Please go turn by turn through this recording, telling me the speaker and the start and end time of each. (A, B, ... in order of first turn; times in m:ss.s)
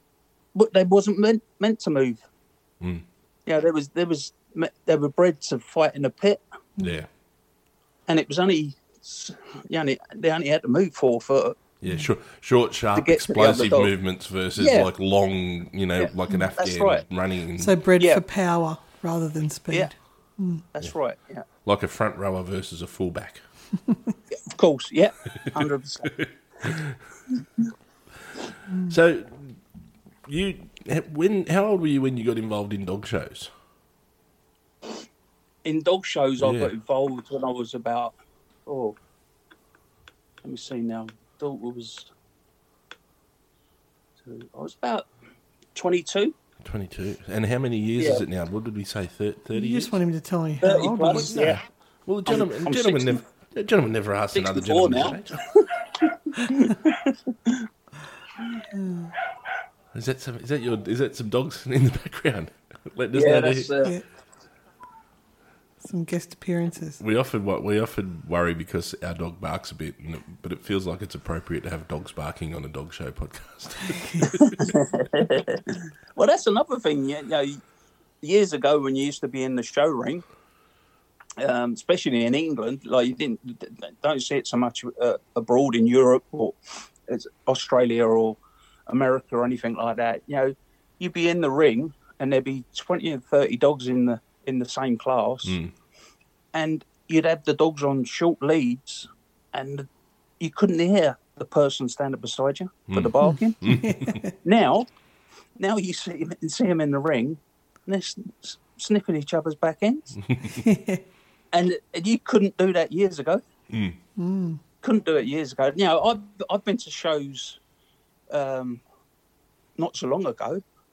0:00.5-0:02.2 A
0:03.4-0:06.4 A
0:06.8-0:07.1 B
0:08.1-0:11.6 A
0:11.8-0:17.8 B
0:12.9-0:14.0 A
0:14.6-0:14.9 A
0:16.0-0:17.1 A
0:17.6-0:20.6 C
0:18.0-0:18.2 A
0:19.7-0:19.9 A
0:20.6-0:21.4 A
0:21.6-0:23.6 B
0:24.3-0:26.2 A
0:26.0-0:27.0 B
0:28.7-0:28.9 C
0:28.9-0:29.6 B
0:30.2-0:33.5 B
0:35.6-0:39.0 A
0:36.4-0:36.7 B
0:40.4-0:42.1 A
0:44.2-0:45.1 A
0:45.7-0:46.4 A
0:46.6-0:49.9 B
0:48.0-0:48.2 A
0:49.5-0:51.5 C
0:50.6-0:51.6 A
0:51.0-0:55.5 B
0:52.2-0:53.2 A
0:54.3-0:57.6 A
0:58.7-0:59.1 C
0:59.9-1:03.9 B
1:03.1-1:04.0 A
1:05.8-1:07.0 C
1:07.0-1:14.6 B
1:14.3-1:17.6 A
1:18.2-1:20.2 A
1:21.4-1:26.6 A
1:27.1-1:35.6 A
1:35.4-1:35.7 B
1:36.5-1:39.9 A
1:40.4-1:44.9 A
1:42.9-1:44.2 B
1:43.2-1:44.2 C
1:45.6-1:50.2 A
1:50.3-1:50.6 B
1:50.6-1:51.0 C
1:51.5-1:53.4 A
1:53.7-1:54.0 B
1:54.2-1:54.6 C
1:54.8-1:57.6 A
1:58.3-1:58.8 A
1:59.8-2:00.6 A